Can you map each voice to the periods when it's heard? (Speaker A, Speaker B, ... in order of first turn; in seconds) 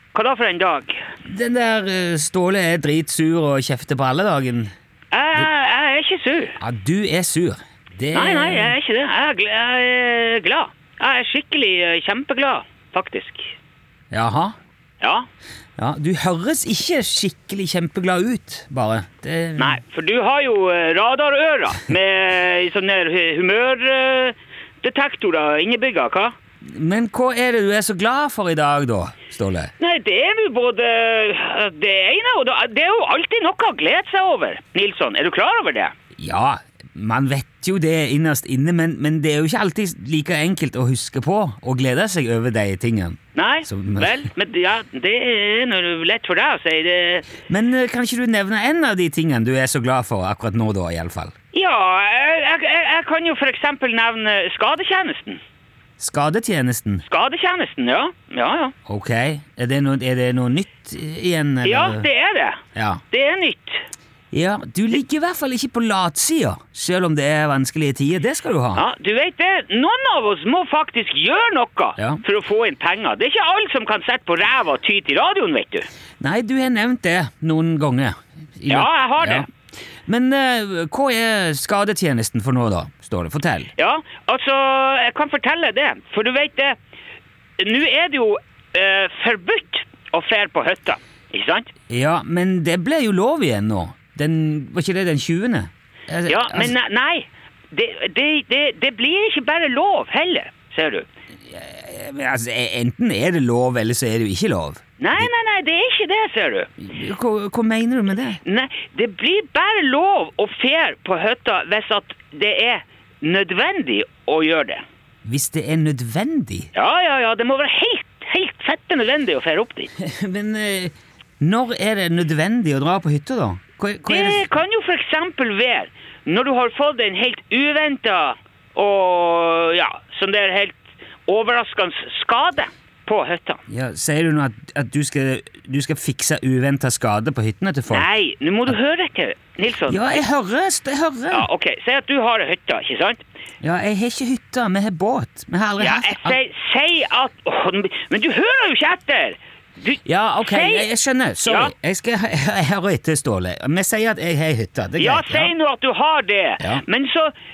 Speaker A: 0.1-1.0, 5.1-6.6, 8.1-13.6, 15.0-15.2, 19.6-26.3, 29.8-35.9, 43.3-47.3, 51.5-55.4, 57.1-58.7, 61.6-63.8, 68.8-75.9, 78.7-79.5, 83.8-86.8, 87.6-91.7, 96.3-101.1, 105.0-106.7, 108.4-114.8, 116.7-119.9, 124.1-133.6, 137.9-140.0, 141.3-143.2, 145.8-150.9, 151.4-151.7, 155.0-157.3
Speaker B: 1.2-4.7, 6.6-8.7, 14.1-14.5, 15.8-19.8, 26.6-29.7, 36.2-44.2, 47.5-51.3, 56.0-57.0, 58.9-62.1, 62.7-63.0, 64.3-68.8, 76.2-79.5, 80.0-83.7, 91.9-96.7, 101.5-105.3, 106.8-108.4, 115.2-116.7, 120.0-124.4, 133.7-138.1, 139.9-141.5, 143.6-146.4, 150.0-155.5, 156.6-156.8